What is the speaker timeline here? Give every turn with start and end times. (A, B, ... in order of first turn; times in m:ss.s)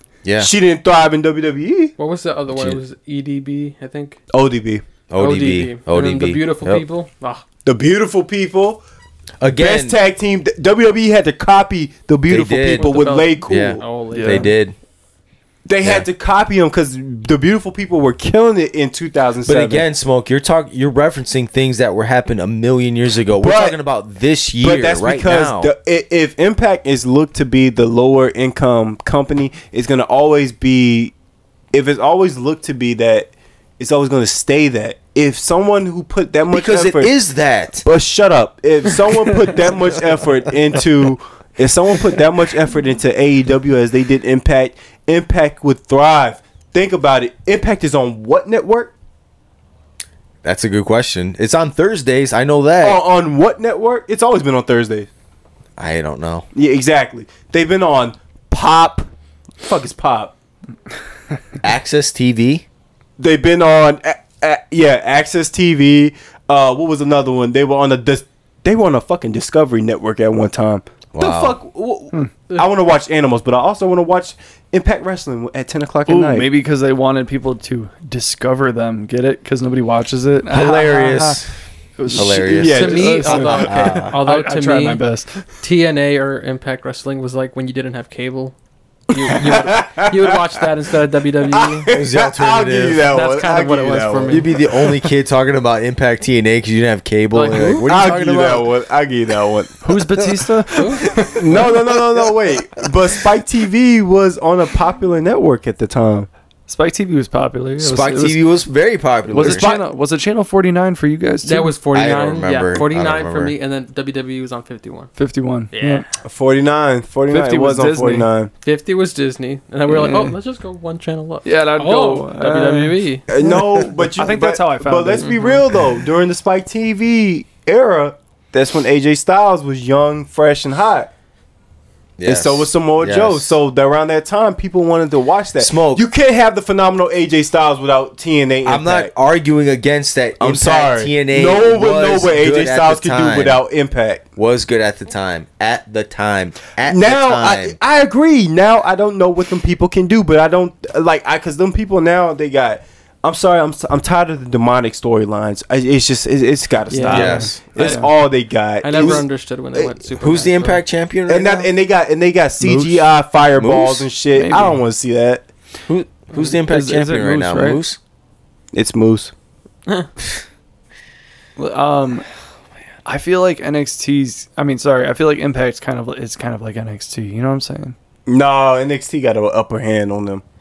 0:00.2-0:00.5 A
0:00.4-0:01.9 B
0:02.0-0:04.2 C
0:02.5-0:02.8 A
0:04.3-0:04.8 B
0:05.1-0:06.8 A
0:05.2-0:07.4 C
0:07.6-0:08.8 B
0:09.4-0:10.0 A
0:09.5-0:13.8 B
0:12.3-0:14.8 A
0:12.8-0:14.6 C
0:14.1-0:14.5 D
0:15.7-0:19.8 B
0:19.5-0:25.7 A
0:23.4-0:23.8 B
0:24.6-0:31.1 B
0:31.7-0:37.1 B
0:36.5-0:37.8 A
0:37.8-0:48.9 B
0:50.4-0:53.0 A
0:52.8-0:55.1 B
0:55.8-0:56.5 A
0:56.5-0:59.1 B
0:59.6-1:00.3 B
1:01.6-1:02.6 A
1:03.2-1:16.5 B
1:11.1-1:11.6 A
1:16.1-1:21.4 D
1:20.5-1:21.5 A
1:22.0-1:25.4 D
1:22.2-1:22.9 A
1:22.2-1:23.7 B
1:22.6-1:25.0 C
1:23.5-1:24.2 A
1:25.6-1:28.6 C
1:29.1-1:31.9 C
1:29.2-1:30.7 B
1:31.5-1:34.9 B
1:31.9-1:33.1 A
1:33.1-1:34.6 C
1:34.3-1:38.7 A
1:37.3-1:37.9 C
1:37.8-1:39.8 B
1:39.8-1:41.2 D
1:40.7-1:41.7 C
1:41.3-1:46.3 B
1:46.7-1:48.4 D
1:47.8-1:49.7 A
1:49.3-1:51.7 D
1:49.4-1:49.8 B
1:51.4-1:55.1 C
1:51.9-1:53.5 A
1:55.2-1:56.1 D
1:55.7-1:56.1 C
1:56.2-1:58.5 B
1:57.3-1:58.3 D
1:58.6-2:03.3 C
1:59.9-2:00.4 D
2:01.4-2:05.6 D
2:03.3-2:11.1 B
2:12.2-2:13.6 A
2:12.2-2:19.1 B
2:15.6-2:16.0 A
2:18.6-2:23.6 A
2:20.4-2:24.2 B
2:24.4-2:27.8 A
2:26.8-2:40.0 B
2:36.9-2:37.4 C
2:37.0-2:38.1 D
2:37.1-2:37.6 A
2:38.8-2:40.8 C
2:40.2-2:41.7 A
2:41.3-2:45.5 B
2:42.6-2:42.9 D
2:43.4-2:44.1 A
2:44.4-2:44.8 D
2:45.9-2:48.0 A
2:46.7-2:47.8 D
2:48.7-2:49.3 B
2:51.6-2:52.3 D
2:53.1-2:58.0 D
2:58.3-3:00.4 B